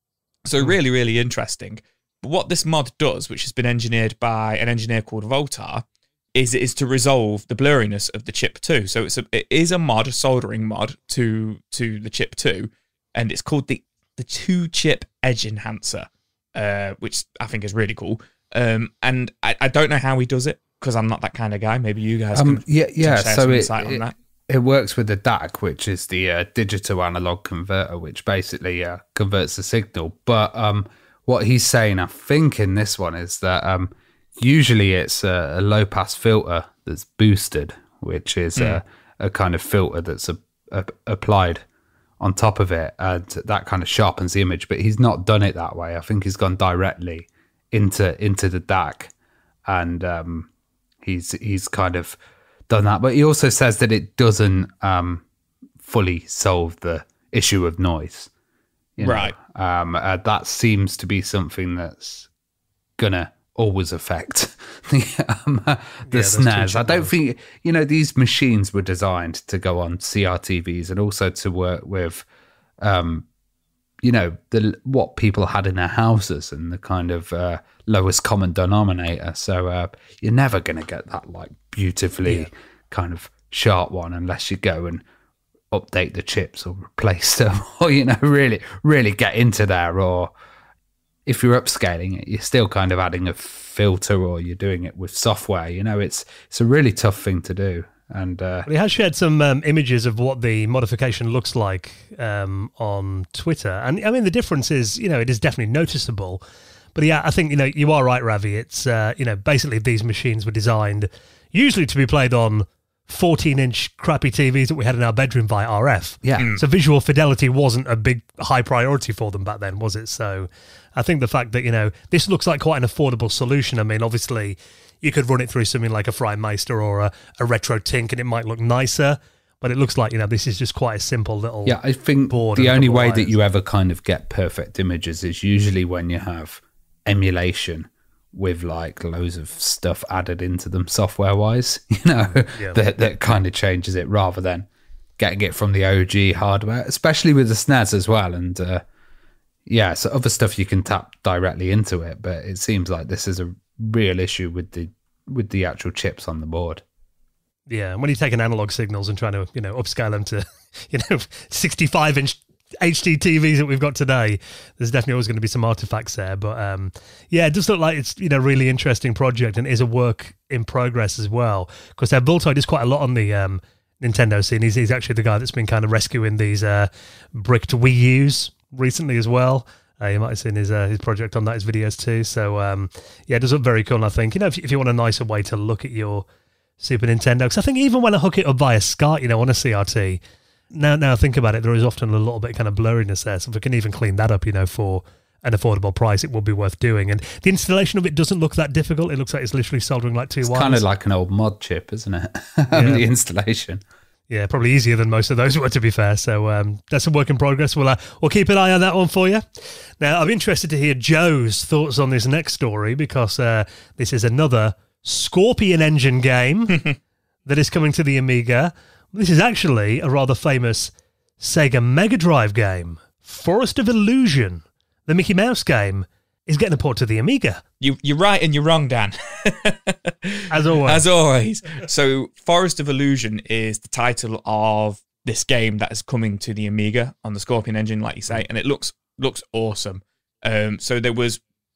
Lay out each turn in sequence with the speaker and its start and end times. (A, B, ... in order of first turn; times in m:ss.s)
0:00.4-0:24.1 A
0:22.4-0:41.6 B
0:38.6-0:38.8 A
0:42.2-0:49.1 B
0:49.7-0:50.5 B
0:51.0-0:52.2 B
0:52.7-0:55.2 B
0:55.8-0:58.3 B
0:59.0-1:02.3 B
0:59.0-0:59.3 A
1:03.0-1:12.2 B
1:06.1-1:07.1 C
1:12.8-1:13.3 B
1:14.0-1:25.0 B
1:25.7-1:30.3 B
1:31.3-1:38.7 B
1:38.7-1:46.4 C
1:47.0-2:13.4 C
1:56.2-1:56.5 B
1:56.4-1:56.6 A
2:11.7-2:24.7 B
2:25.2-2:28.8 B
2:29.7-2:36.8 B
2:37.7-3:06.3 C
3:06.8-3:10.2 C
3:10.7-3:20.8 C
3:20.4-3:23.8 B
3:22.7-3:23.0 C
3:24.3-3:29.4 C
3:30.0-3:36.8 C
3:37.5-3:47.6 C
3:47.8-4:01.4 A
3:50.5-3:51.0 C